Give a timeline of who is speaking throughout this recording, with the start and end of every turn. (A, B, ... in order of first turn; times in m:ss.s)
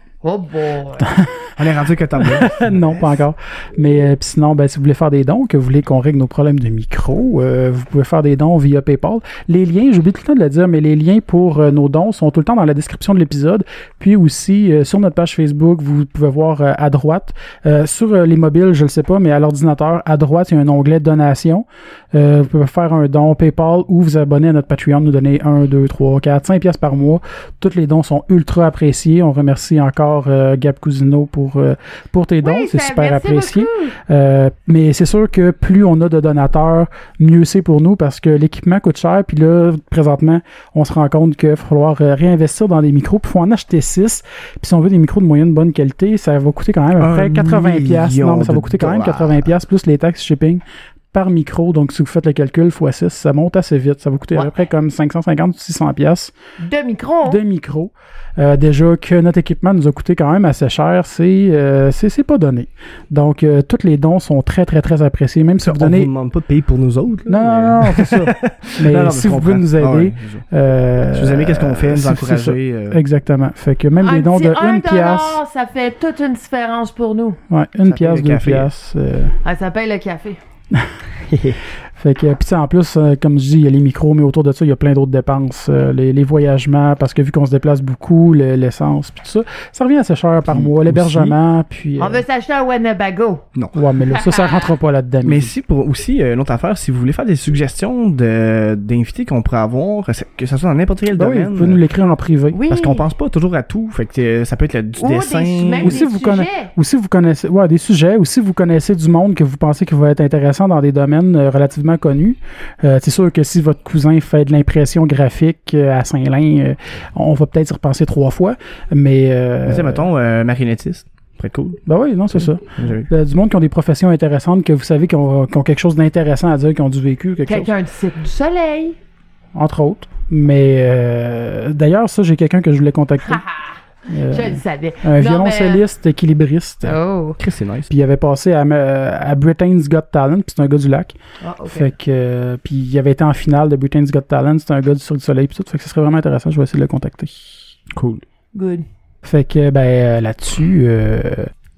0:00.2-0:01.1 A
0:01.6-0:03.2 B
0:02.2-0:56.3 C
0:32.4-0:34.0 A
0:47.0-0:49.5 B
0:56.6-0:57.4 A
0:57.2-1:06.1 C
1:05.6-1:10.4 B
1:07.3-1:15.4 C
1:11.1-1:13.0 B
1:14.0-1:17.4 A
1:17.5-1:19.4 C
1:17.9-1:18.7 B
1:19.4-1:20.4 A
1:21.3-1:21.6 B
1:22.0-1:32.2 C
1:30.5-1:31.4 B
1:32.0-1:33.5 A
1:33.7-1:35.5 C
1:34.0-1:34.8 A
1:35.2-1:41.8 B
1:41.1-1:42.6 C
1:42.5-1:43.1 A
1:42.7-1:46.0 B
1:45.0-1:46.7 A
1:45.8-2:00.1 C
1:59.7-2:03.1 B
2:01.9-2:07.7 C
2:07.5-2:09.0 A
2:09.6-2:13.4 C
2:13.2-2:13.8 A
2:14.1-2:17.0 C
2:14.3-2:15.8 A
2:16.8-2:17.4 A
2:17.4-2:17.9 B
2:17.9-2:21.1 C
2:21.4-2:21.9 A
2:21.6-2:27.7 C
2:27.9-2:28.2 B
2:28.5-2:28.9 A
2:29.2-2:31.5 C